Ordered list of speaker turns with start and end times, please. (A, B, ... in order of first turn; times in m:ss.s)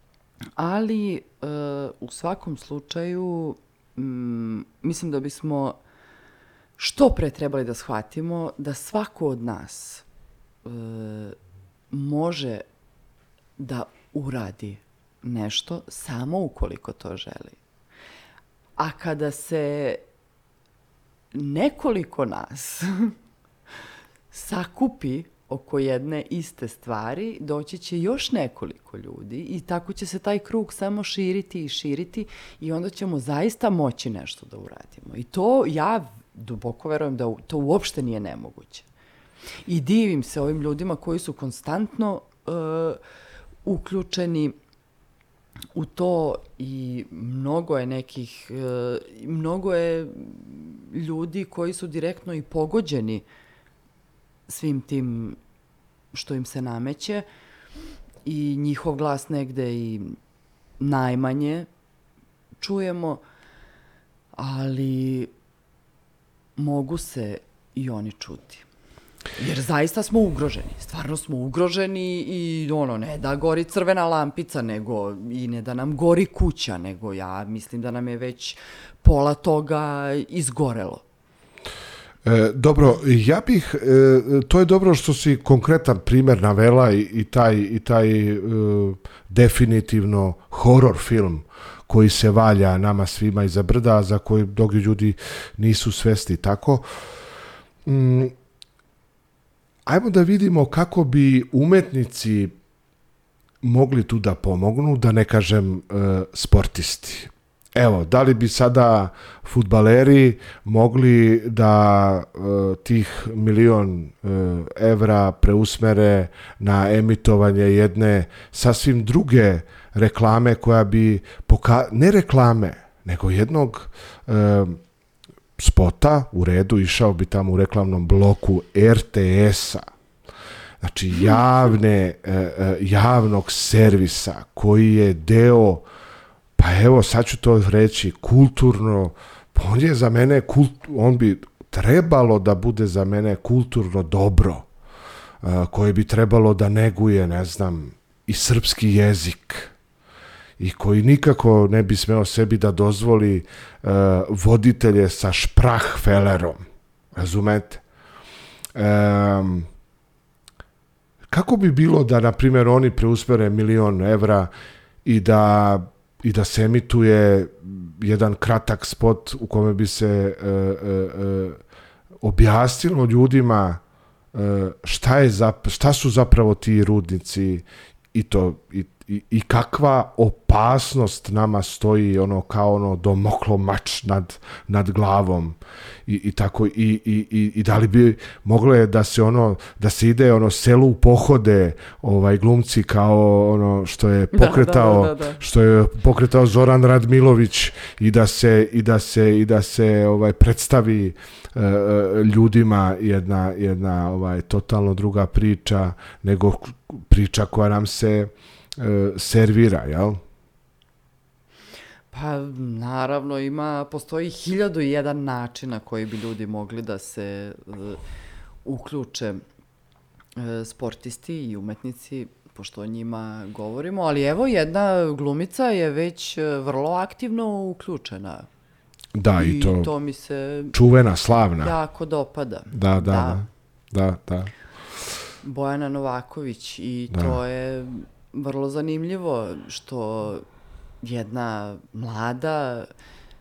0:00.6-0:05.8 A
0:06.8-0:10.1 A
0:10.6-0:11.4 A
0:11.9-0:12.7 A
0:13.6-0:17.6 A
0:18.8-0:20.0 A
0:21.3-0:23.1 A
0:24.3-0:38.9 A
0:39.7-0:43.0 A
0:43.6-0:44.6 A
0:45.8-0:53.2 A
0:54.5-0:55.4 A
0:56.1-0:57.3 A
0:58.2-1:00.2 A
1:00.8-1:01.7 A
1:02.6-1:03.2 A
1:04.4-1:05.3 A
1:06.6-1:08.7 A
1:09.4-1:21.0 A
1:22.2-1:36.9 B
1:37.9-1:38.3 B
1:39.9-1:42.6 B
1:43.6-2:04.8 B
2:05.6-2:09.9 B
2:10.8-2:15.9 B
2:16.6-2:24.7 B
2:25.4-2:29.7 B
2:30.6-2:36.6 B
2:37.2-2:37.8 B
2:38.8-2:39.7 B
2:41.3-2:44.5 B
2:45.0-2:51.6 B
2:52.2-2:53.8 B
2:54.3-3:30.2 B
3:14.3-3:15.4 A
3:32.1-3:38.0 A
3:38.6-3:39.4 A
3:40.4-3:48.5 A
3:49.2-3:49.9 B
3:49.4-3:50.8 A
3:50.7-3:51.8 B
3:51.6-3:53.4 A
3:52.7-3:54.5 B
3:55.4-4:00.4 A
3:57.1-3:57.4 B
4:01.0-4:02.9 A